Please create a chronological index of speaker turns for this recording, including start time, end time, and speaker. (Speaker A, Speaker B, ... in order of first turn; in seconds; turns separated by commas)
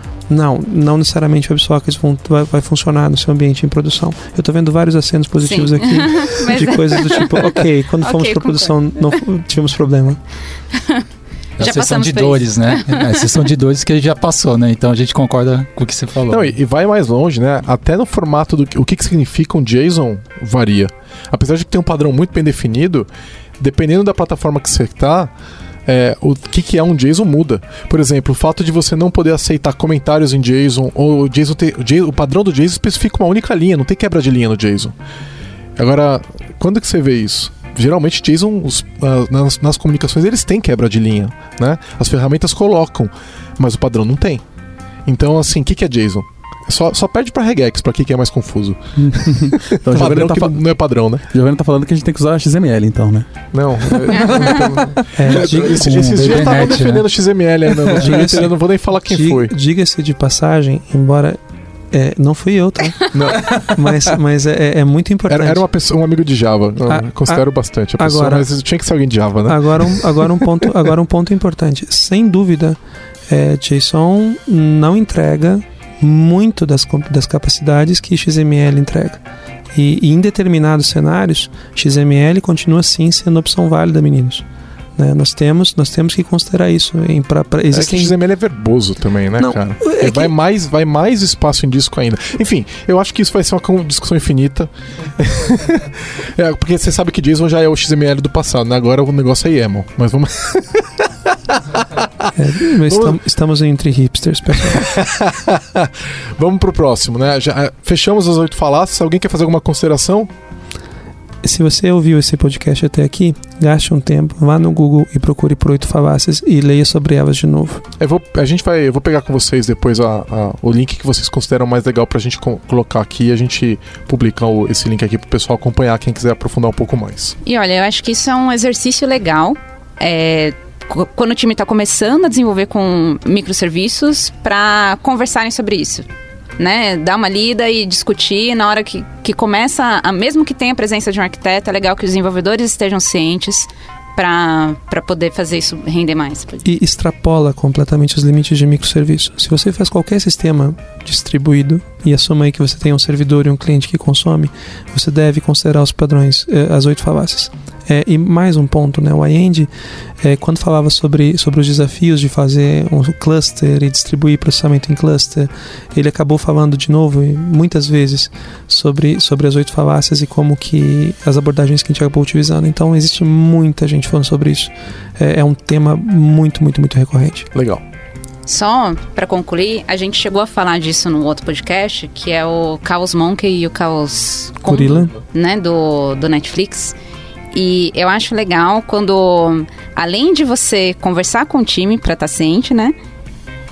Speaker A: 0.3-10.2, Speaker B: 5.4-8.8, Speaker B: 10.7-11.0, Speaker B: 11.6-13.3, Speaker C: 11.6-16.5, Speaker D: 16.3-23.1, Speaker D: 23.6-25.3, Speaker D: 25.9-35.0, Speaker D: 35.8-44.4, Speaker D: 45.1-51.2, Speaker E: 49.0-50.6, Speaker E: 51.3-53.3, Speaker D: 53.5-59.5, Speaker E: 53.8-55.1, Speaker B: 54.1-54.6, Speaker A: 55.1-56.4, Speaker C: 55.3-57.1, Speaker E: 57.7-58.1, Speaker A: 58.0-61.4, Speaker A: 61.9-65.7, Speaker D: 63.1-63.6, Speaker D: 65.3-70.6, Speaker A: 66.9-67.4, Speaker A: 68.0-68.5, Speaker A: 69.5-72.8, Speaker A: 73.3-79.2, Speaker A: 79.7-84.4, Speaker A: 85.0-88.1, Speaker D: 87.7-103.2, Speaker A: 89.4-90.3, Speaker A: 102.3-104.9, Speaker D: 104.7-110.3, Speaker A: 111.4-117.8, Speaker D: 118.0-127.4, Speaker B: 127.5-136.1, Speaker B: 136.6-146.7, Speaker A: 146.6-159.7, Speaker A: 160.2-177.5, Speaker D: 177.5-177.8, Speaker B: 178.5-187.0, Speaker A: 184.6-185.2, Speaker B: 187.5-193.0